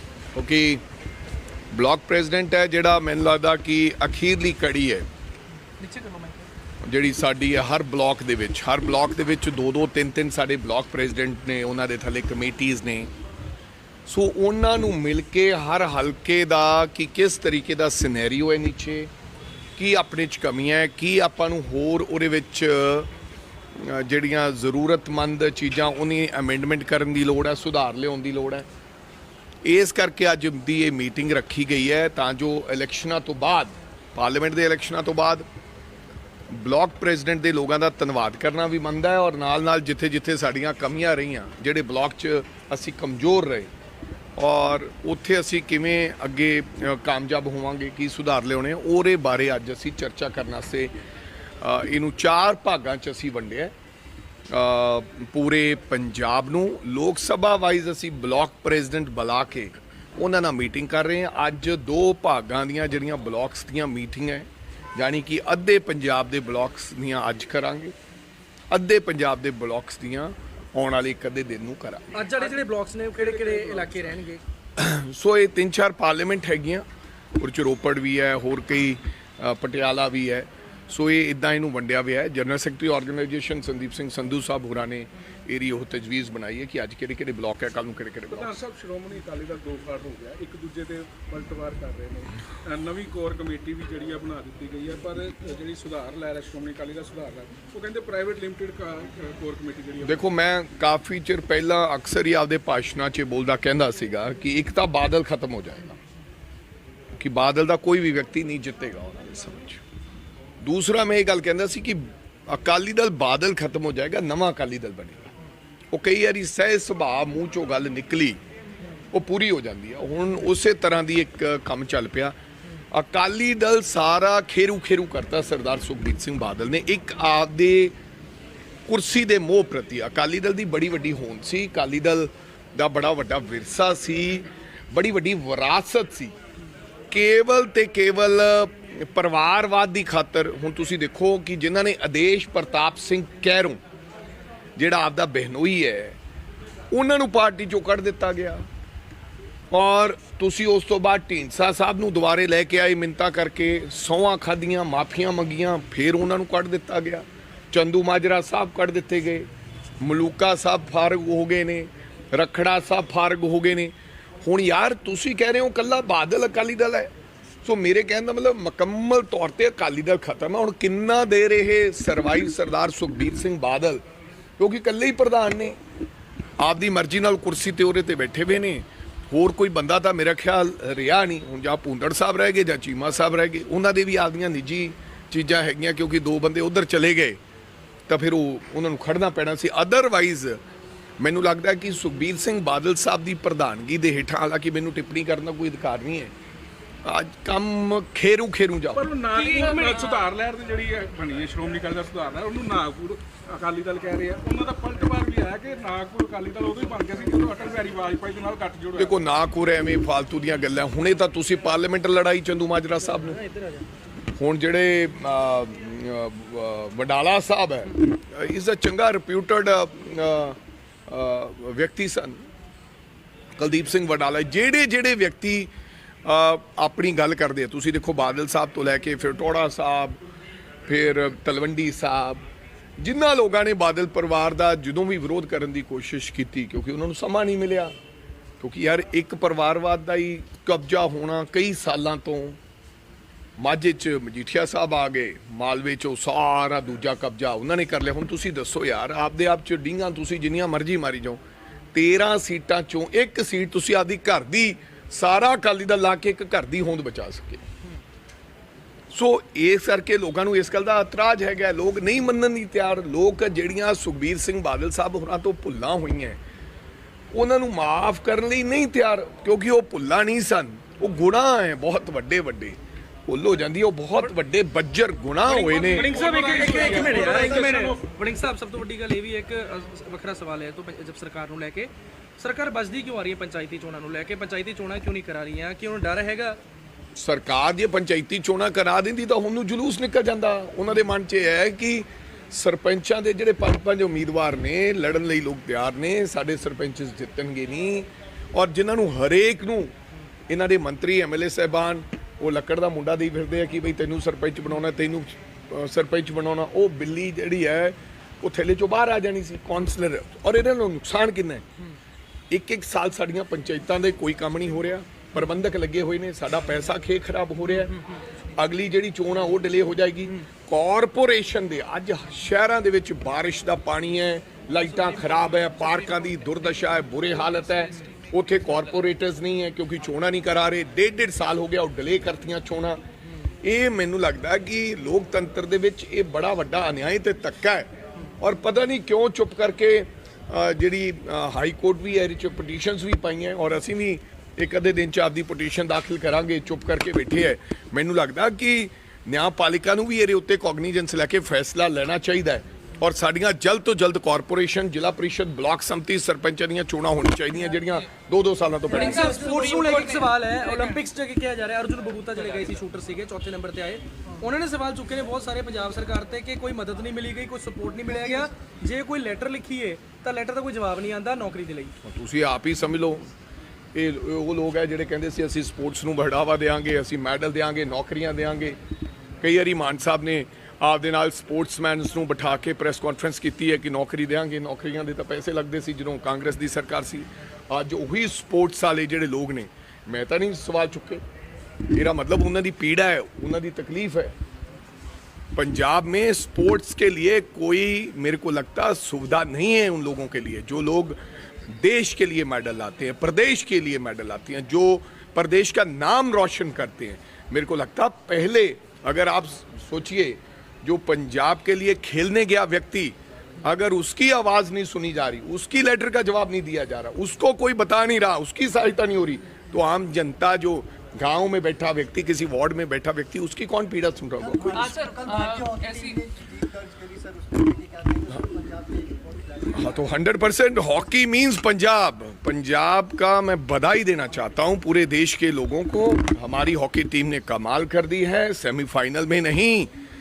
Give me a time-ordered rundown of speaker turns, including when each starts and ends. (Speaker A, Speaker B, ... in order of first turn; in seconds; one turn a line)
Speaker A: 0.3-0.8
Speaker A: 1.7-5.0
Speaker B: 5.8-6.5
Speaker A: 6.8-13.1
Speaker A: 14.1-19.1
Speaker A: 19.8-23.1
Speaker A: 23.8-28.7
Speaker A: 29.6-35.4
Speaker A: 36.5-43.7
Speaker A: 44.4-50.9
Speaker A: 51.6-53.7
Speaker A: 54.5-67.9
Speaker A: 68.7-72.2
Speaker B: 72.1-74.4
Speaker C: 72.3-74.2
Speaker A: 74.8-76.8
Speaker A: 77.4-88.5
Speaker C: 88.3-100.3
Speaker A: 100.0-106.0
Speaker A: 107.2-109.8
Speaker A: 110.6-115.3
Speaker A: 115.9-118.4
Speaker A: 119.1-122.3
Speaker A: 122.9-127.9
Speaker A: 128.9-136.3
Speaker A: 137.1-143.8
Speaker A: 144.8-146.2
Speaker A: 146.9-148.6
Speaker A: 149.7-159.5
Speaker A: 160.0-167.1
Speaker A: 167.6-174.0
Speaker A: 174.6-175.8
Speaker A: 176.6-187.4
Speaker A: 188.1-190.6
Speaker A: 191.2-196.3
Speaker A: 197.0-199.0
Speaker C: 198.9-209.2
Speaker D: 199.3-200.2
Speaker A: 208.9-213.4
Speaker B: 213.1-213.8
Speaker A: 214.3-222.4
Speaker A: 223.6-225.7
Speaker A: 226.2-230.2
Speaker A: 230.9-232.4
Speaker A: 233.0-237.9
Speaker A: 238.6-242.6
Speaker A: 243.6-251.4
Speaker A: 251.9-257.6
Speaker A: 259.1-266.4
Speaker A: 267.3-276.2
Speaker C: 275.4-278.0
Speaker B: 276.0-286.6
Speaker A: 287.1-299.9
Speaker A: 300.5-311.6
Speaker A: 312.5-318.0
Speaker A: 318.6-333.0
Speaker D: 324.9-329.0
Speaker A: 333.6-359.4
Speaker D: 358.9-361.0
Speaker B: 358.9-371.9
Speaker D: 362.3-362.8
Speaker A: 372.0-373.3
Speaker A: 373.9-378.8
Speaker A: 379.4-391.2
Speaker A: 391.9-394.3
Speaker A: 395.5-401.2
Speaker A: 401.7-424.9
Speaker D: 424.7-426.6
Speaker A: 429.7-439.9